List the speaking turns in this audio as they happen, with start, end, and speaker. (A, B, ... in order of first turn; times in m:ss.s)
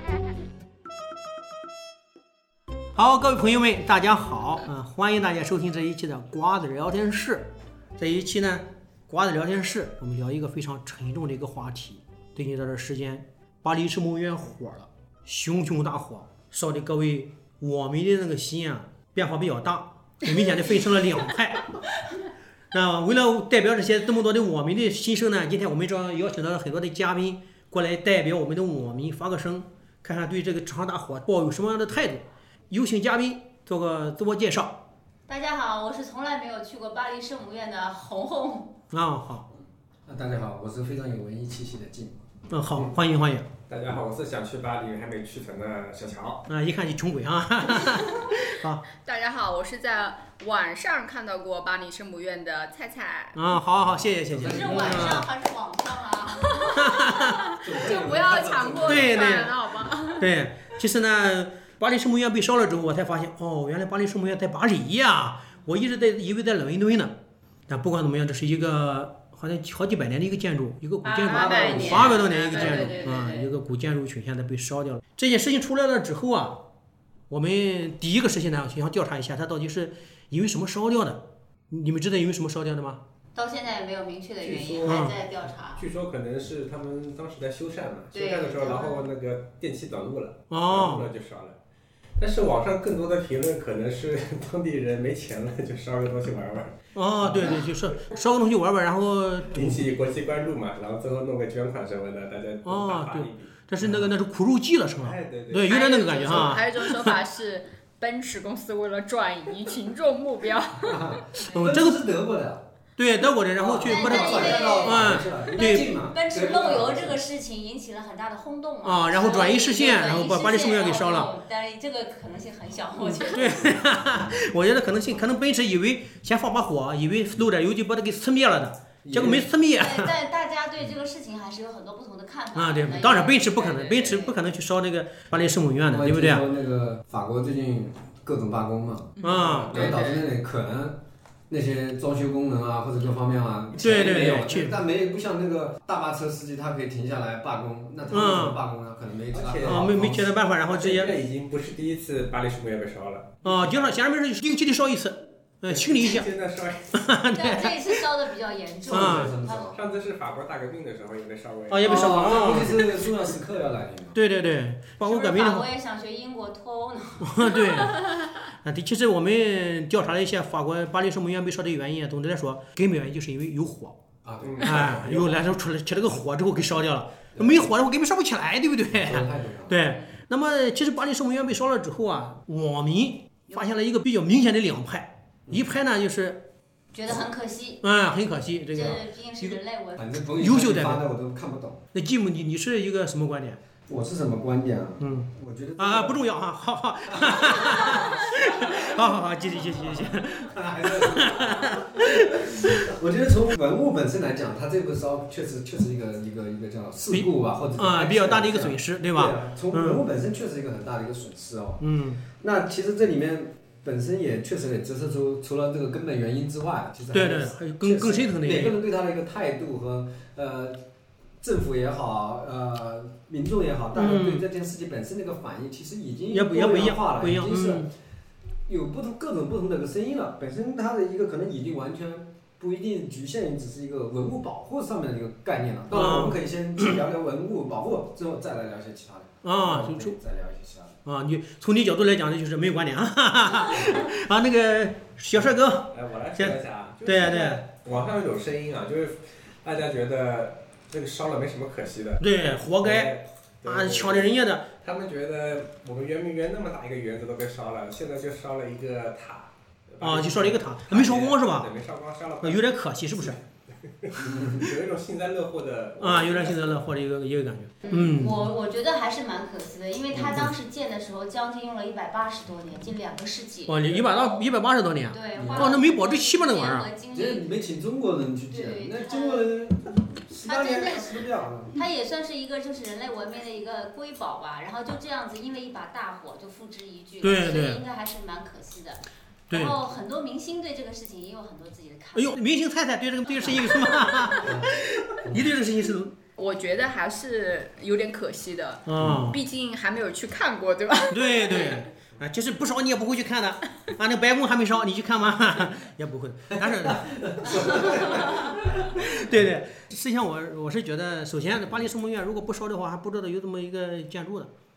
0:03.0-0:21.6 A
0:22.7-0:34.8 A
0:35.3-0:38.7 B
0:38.9-0:39.5 A
0:40.1-0:42.2 C
0:42.5-0:43.5 A
0:42.7-0:43.0 D
0:43.7-0:46.4 D
0:46.5-0:48.8 A
0:49.0-0:53.4 E
0:53.4-0:55.3 A
0:54.3-0:55.2 C
0:54.4-0:57.9 B
0:56.8-0:57.4 A
0:57.3-1:00.3 E
0:57.6-0:59.4 C
0:58.9-0:59.6 A
1:00.2-1:07.1 A
1:07.7-1:16.6 A
1:11.0-1:13.3 B
1:11.0-1:13.5 E
1:11.5-1:12.1 C
1:17.3-1:23.0 A
1:23.3-1:25.8 B
1:24.4-1:25.2 D
1:24.9-1:25.1 A
1:25.7-1:31.6 D
1:28.1-1:29.0 B
1:30.5-1:31.1 A
1:32.2-1:38.1 D
1:37.0-1:39.7 A
1:39.5-1:43.6 D
1:42.6-1:47.2 A
1:43.8-1:44.2 C
1:44.9-1:46.6 D
1:45.7-1:51.4 E
1:50.8-1:52.6 C
1:51.4-1:52.0 A
1:53.0-1:55.9 A
1:53.5-1:57.2 C
1:53.8-2:03.9 B
1:58.8-2:01.3 A
2:03.3-2:10.1 A
2:09.0-2:09.5 C
2:09.7-2:14.4 B
2:12.6-2:16.4 A
2:15.9-2:21.0 C
2:19.2-2:20.3 E
2:19.2-2:19.7 A
2:21.5-2:30.4 C
2:23.8-2:24.8 A
2:28.1-2:28.5 A
2:29.3-2:29.9 D
2:29.6-2:31.1 A
2:30.4-2:34.0 D
2:33.4-2:36.3 A
2:35.6-2:37.0 D
2:37.0-2:38.0 A
2:37.3-2:39.7 B
2:38.9-2:39.8 C
2:38.9-2:39.3 A
2:39.7-2:42.8 D
2:41.7-2:42.9 A
2:41.8-2:44.2 C
2:44.2-2:45.7 A
2:45.0-2:47.9 B
2:47.2-2:48.0 A
2:48.6-2:54.0 A
2:54.2-2:55.0 C
2:54.4-2:55.4 D
2:54.6-3:05.1 A
2:57.4-2:57.8 C
2:58.9-2:59.8 C
3:05.5-3:05.7 C
3:05.6-3:06.4 A
3:06.9-3:07.8 B
3:07.8-3:09.6 A
3:08.6-3:10.2 B
3:10.0-3:11.8 C
3:10.4-3:11.0 A
3:11.9-3:13.6 A
3:13.9-3:16.3 C
3:15.8-3:20.5 A
3:17.1-3:40.8 C
3:21.2-3:22.9 A
3:27.1-3:30.0 A
3:31.8-3:32.2 A
3:37.1-3:38.8 A
3:41.4-3:47.9 C
3:44.0-3:44.4 A
3:46.3-3:47.9 A
3:48.7-4:01.0 C
3:56.0-3:56.4 A
3:59.4-4:00.2 A
4:01.1-4:07.6 A
4:03.7-4:04.1 C
4:05.5-4:26.8 D
4:12.2-4:13.1 A
4:13.6-4:14.6 A
4:20.0-4:21.7 A
4:22.4-4:23.4 A
4:24.2-4:24.7 C
4:26.0-4:28.4 A
4:27.8-4:33.8 B
4:30.1-4:30.5 C
4:33.7-4:36.9 A
4:33.8-4:34.4 D
4:35.1-4:37.4 B
4:35.4-4:35.8 C
4:37.1-4:41.8 C
4:38.5-4:39.5 B
4:40.4-4:41.2 B
4:41.7-4:52.4 B
4:47.2-4:47.8 A
4:49.5-4:49.8 A
4:52.1-4:56.2 A
4:53.6-4:54.3 B
4:54.3-4:54.7 C
4:55.2-4:55.6 C
4:56.4-5:01.8 E
4:58.9-4:59.4 A
4:59.0-4:59.3 C
5:01.1-5:08.2 A
5:06.6-5:09.2 C
5:07.9-5:08.3 B
5:08.9-5:14.5 A